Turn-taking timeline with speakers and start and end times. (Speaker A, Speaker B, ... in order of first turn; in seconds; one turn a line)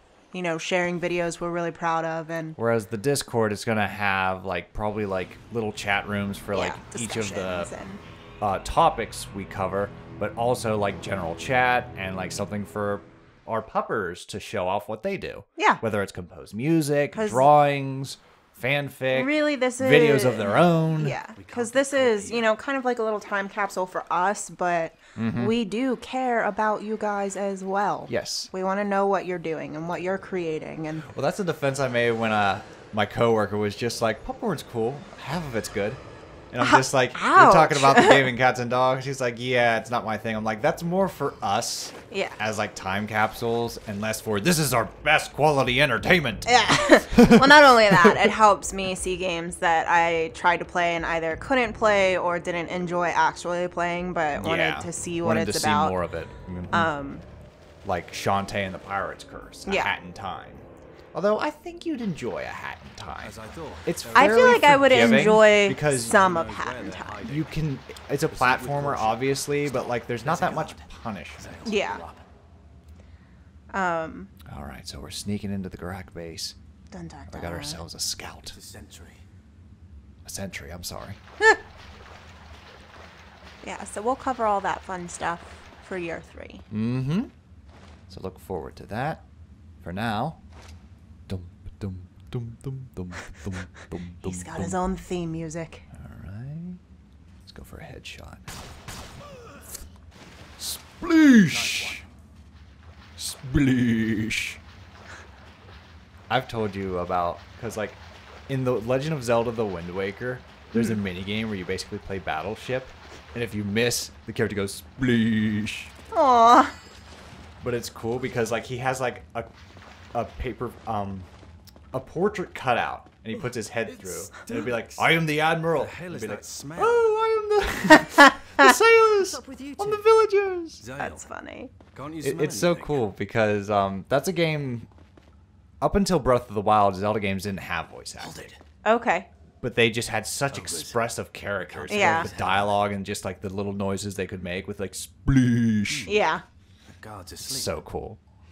Speaker A: 0.3-2.6
Speaker B: 2.6-7.7
Speaker A: 6.5-8.0
Speaker B: 8.4-21.2
Speaker A: 15.6-15.8
Speaker A: 17.1-17.4
Speaker A: 19.1-31.1
Speaker C: 21.4-22.5
Speaker B: 25.1-25.5
Speaker B: 28.1-28.5
Speaker B: 31.1-36.0
Speaker B: 36.5-46.5
Speaker A: 36.6-38.3
Speaker A: 42.1-42.4
Speaker A: 46.4-56.0
Speaker B: 47.0-48.3
Speaker B: 54.4-56.9
Speaker A: 56.7-57.2
Speaker B: 57.8-66.2
Speaker A: 59.6-59.9
Speaker C: 63.2-67.6
Speaker A: 64.1-67.2
Speaker B: 67.2-71.8
Speaker C: 68.3-72.2
Speaker A: 71.6-72.0
Speaker A: 73.7-74.3
Speaker B: 74.5-76.6
Speaker A: 76.9-77.8
Speaker B: 77.3-78.6
Speaker C: 78.5-79.2
Speaker B: 80.2-81.2
Speaker A: 83.6-86.6
Speaker B: 86.7-87.3
Speaker B: 88.1-89.2
Speaker B: 89.8-90.4
Speaker B: 91.3-94.8
Speaker A: 94.2-95.8
Speaker B: 95.9-96.8
Speaker B: 97.5-98.4
Speaker B: 100.6-102.0
Speaker C: 101.4-102.1
Speaker B: 103.2-104.6
Speaker B: 106.3-115.9
Speaker A: 116.1-116.7
Speaker B: 117.6-119.5
Speaker B: 120.1-121.3
Speaker B: 121.9-130.8
Speaker C: 123.9-127.1
Speaker C: 129.2-130.0
Speaker C: 130.8-131.2
Speaker A: 131.0-131.7
Speaker C: 131.9-133.1
Speaker B: 132.2-134.9
Speaker B: 135.8-138.5
Speaker C: 138.2-138.6
Speaker A: 138.8-139.3
Speaker B: 139.6-146.1
Speaker C: 140.5-141.0
Speaker C: 141.7-142.8
Speaker A: 141.9-142.3
Speaker C: 145.9-146.2
Speaker A: 146.1-146.4
Speaker C: 147.0-147.8
Speaker B: 147.4-148.2